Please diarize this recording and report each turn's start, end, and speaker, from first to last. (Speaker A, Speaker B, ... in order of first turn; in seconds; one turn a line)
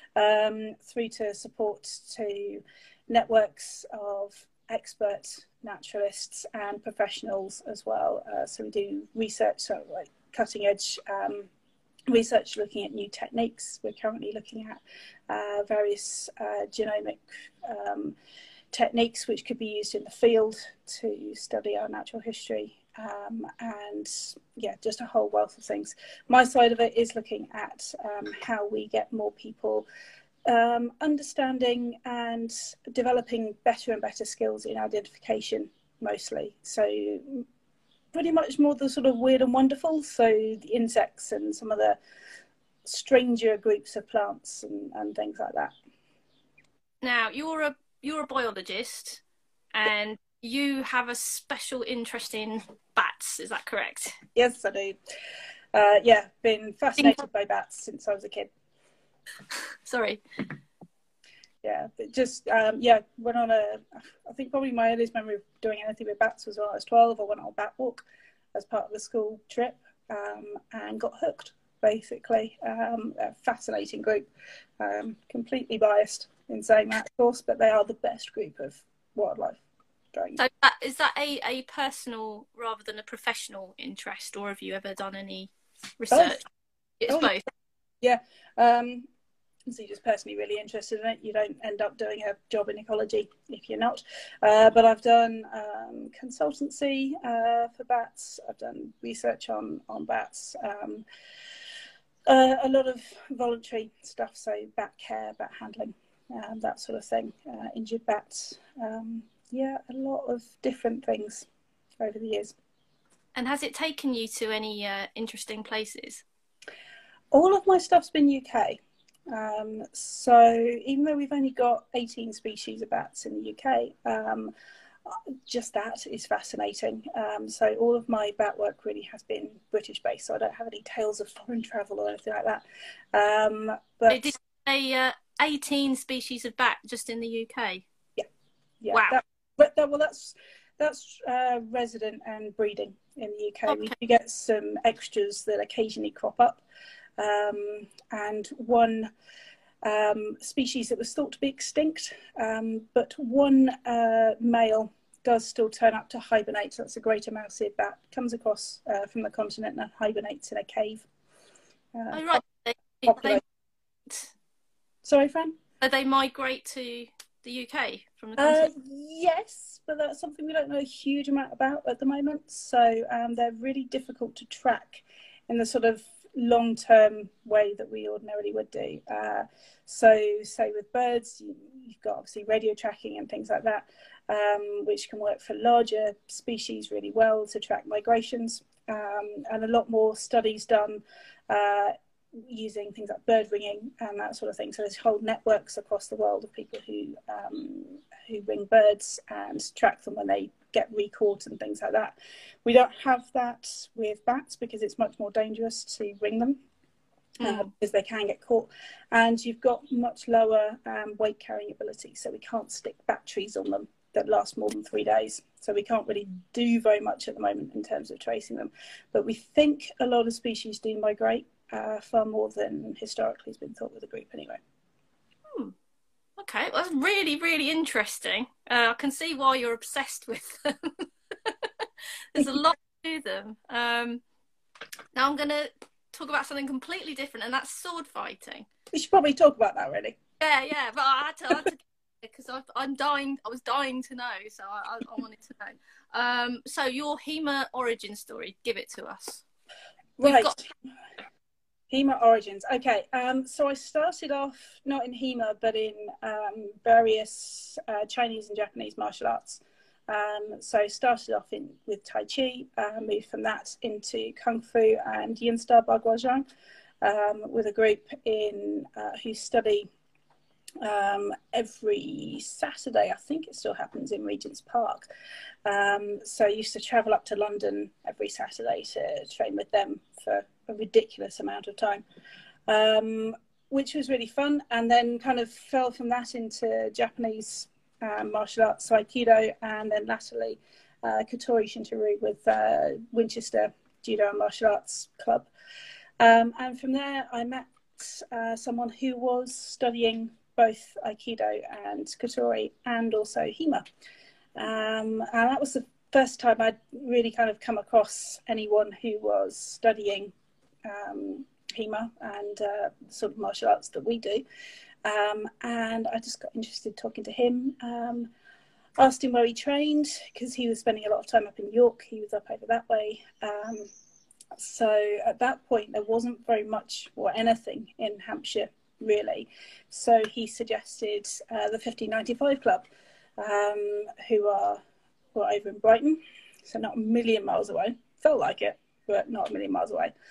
Speaker A: 0.1-11.5
Speaker A: 12.1-18.1
Speaker A: 18.7-29.9
Speaker A: 30.5-37.4
Speaker A: 38.1-42.0
Speaker A: 42.8-45.7
Speaker B: 47.0-49.2
Speaker B: 49.7-54.2
Speaker A: 54.3-55.0
Speaker A: 55.7-58.5
Speaker B: 59.5-60.2
Speaker A: 61.6-74.3
Speaker A: 74.8-79.6
Speaker A: 80.1-80.4
Speaker B: 80.4-86.5
Speaker A: 86.1-86.4
Speaker B: 87.0-87.4
Speaker A: 87.1-87.4
Speaker A: 88.0-89.1
Speaker A: 89.7-101.0
Speaker A: 102.3-111.5
Speaker A: 112.0-112.5
Speaker B: 113.3-116.2
Speaker A: 117.3-124.5
Speaker A: 125.0-134.3
Speaker B: 134.1-137.8
Speaker A: 138.8-146.6
Speaker B: 138.9-139.2
Speaker B: 143.7-143.9
Speaker A: 147.2-149.1
Speaker A: 149.8-161.1
Speaker A: 161.9-162.4
Speaker B: 162.1-163.4
Speaker A: 163.1-163.4
Speaker A: 165.0-165.6
Speaker B: 165.8-168.7
Speaker A: 168.4-206.6
Speaker B: 207.4-207.7
Speaker A: 207.4-224.6
Speaker B: 226.4-234.2
Speaker B: 235.1-238.7
Speaker A: 238.9-240.2
Speaker B: 240.4-249.4
Speaker A: 250.2-250.7
Speaker B: 250.2-250.6
Speaker A: 251.9-266.4
Speaker A: 267.0-269.9
Speaker A: 270.8-275.1
Speaker A: 275.6-282.0
Speaker A: 282.7-295.5
Speaker A: 296.2-303.9
Speaker A: 304.6-310.3
Speaker A: 310.8-314.4
Speaker A: 315.0-318.3
Speaker A: 319.0-323.9
Speaker A: 324.5-332.9
Speaker A: 333.4-334.8
Speaker A: 335.3-340.1